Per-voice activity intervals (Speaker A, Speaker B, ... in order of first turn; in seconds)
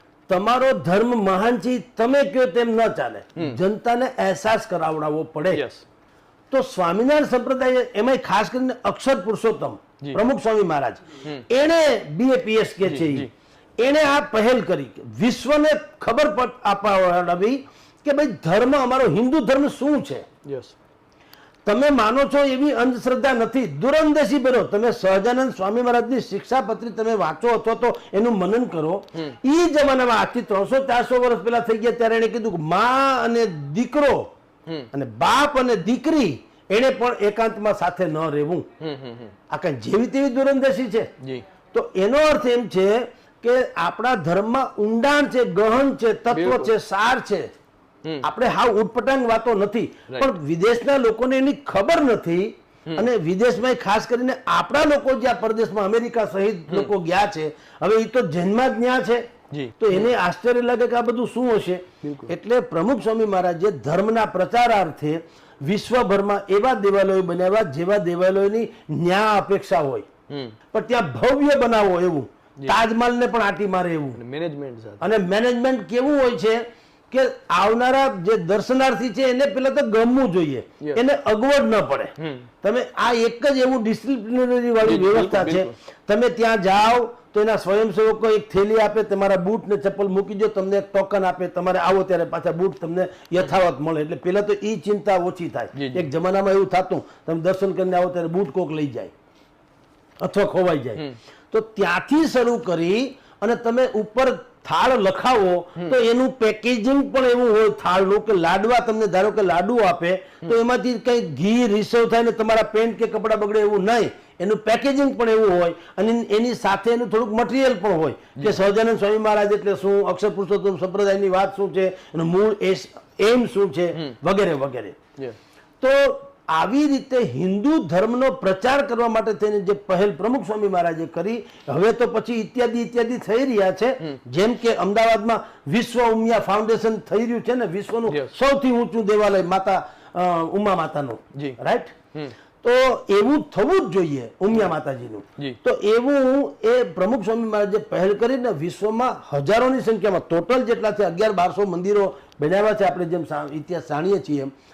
Speaker A: 0.3-5.6, 6.5-13.3, 13.8-20.3, 21.6-34.3, 34.9-38.6, 39.5-41.1, 41.7-47.5, 48.2-59.2, 59.8-70.1, 70.7-74.2, 75.0-99.1, 100.2-125.0, 125.8-141.9, 142.6-154.5
Speaker B: 5.5-5.8, 12.8-13.3, 20.4-20.8, 38.8-39.3, 41.2-41.5, 46.3-46.7, 59.5-60.1, 62.0-62.3, 70.3-70.5, 74.2-75.0, 82.2-82.5, 84.8-85.7, 95.7-96.1, 138.1-138.3